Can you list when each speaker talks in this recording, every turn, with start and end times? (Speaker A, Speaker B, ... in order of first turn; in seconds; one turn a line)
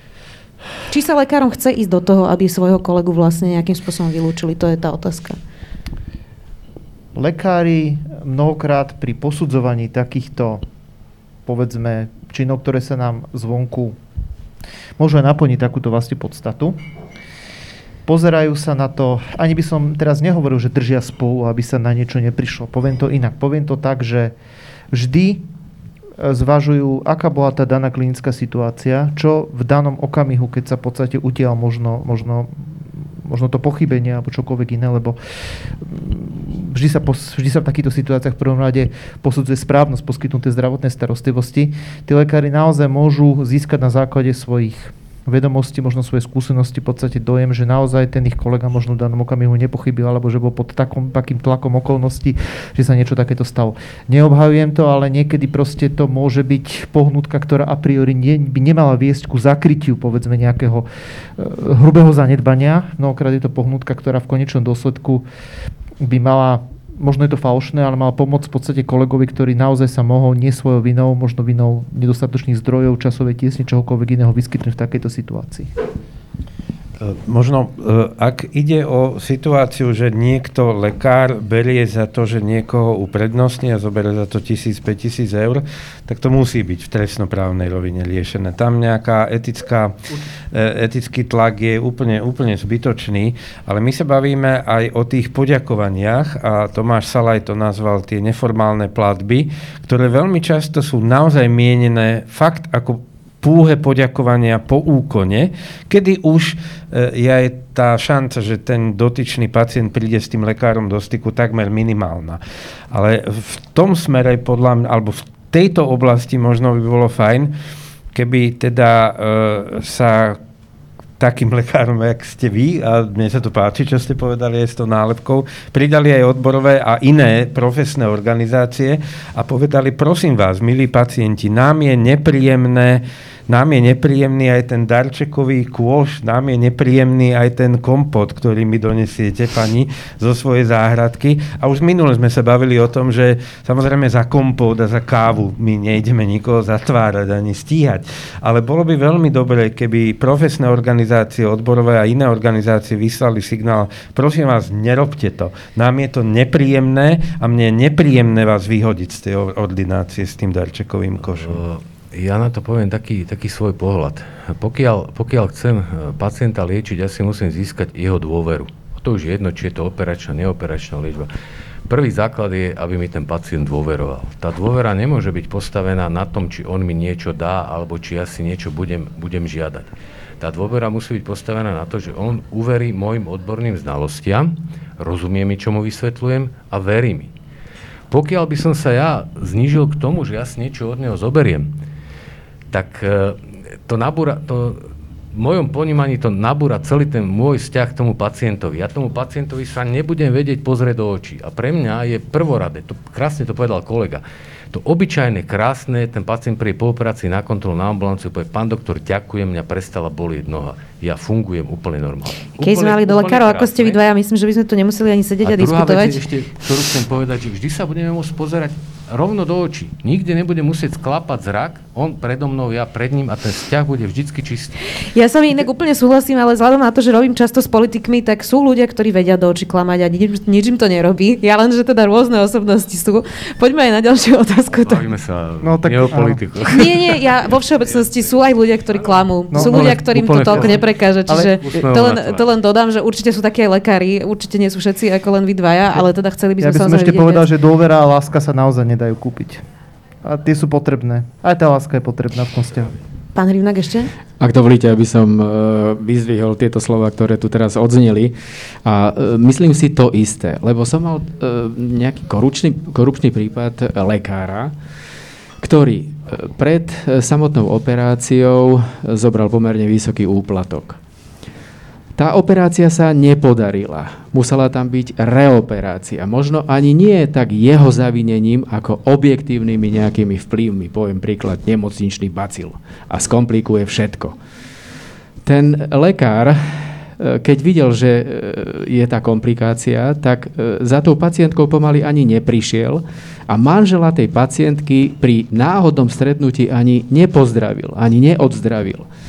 Speaker A: 0.9-5.4
Speaker B: 7.2-10.6
Speaker B: 11.5-14.0
Speaker B: 15.0-16.8
Speaker B: 18.1-24.3
Speaker B: 24.9-25.4
Speaker B: 26.2-32.6
Speaker B: 33.2-35.2
Speaker B: 35.8-65.3
Speaker B: 66.0-75.7
Speaker C: 77.0-90.0
Speaker C: 90.5-117.5
Speaker C: 118.1-120.4
Speaker C: 121.2-161.6
Speaker D: 161.4-171.3
Speaker D: 171.9-187.3
Speaker D: 188.1-191.7
Speaker D: 192.7-214.0
Speaker A: 212.6-216.2
Speaker D: 215.4-224.9
Speaker A: 225.0-235.0
Speaker D: 234.7-238.3
Speaker B: 235.6-236.4
Speaker A: 236.7-247.4
Speaker D: 239.0-240.9
Speaker B: 239.5-240.8
Speaker B: 241.3-241.6
Speaker D: 241.6-242.4
Speaker B: 246.6-249.6
Speaker B: 250.2-252.9
Speaker A: 253.3-254.1
Speaker E: 254.4-264.7
Speaker E: 265.6-271.0
Speaker E: 272.2-284.4
Speaker E: 285.4-299.1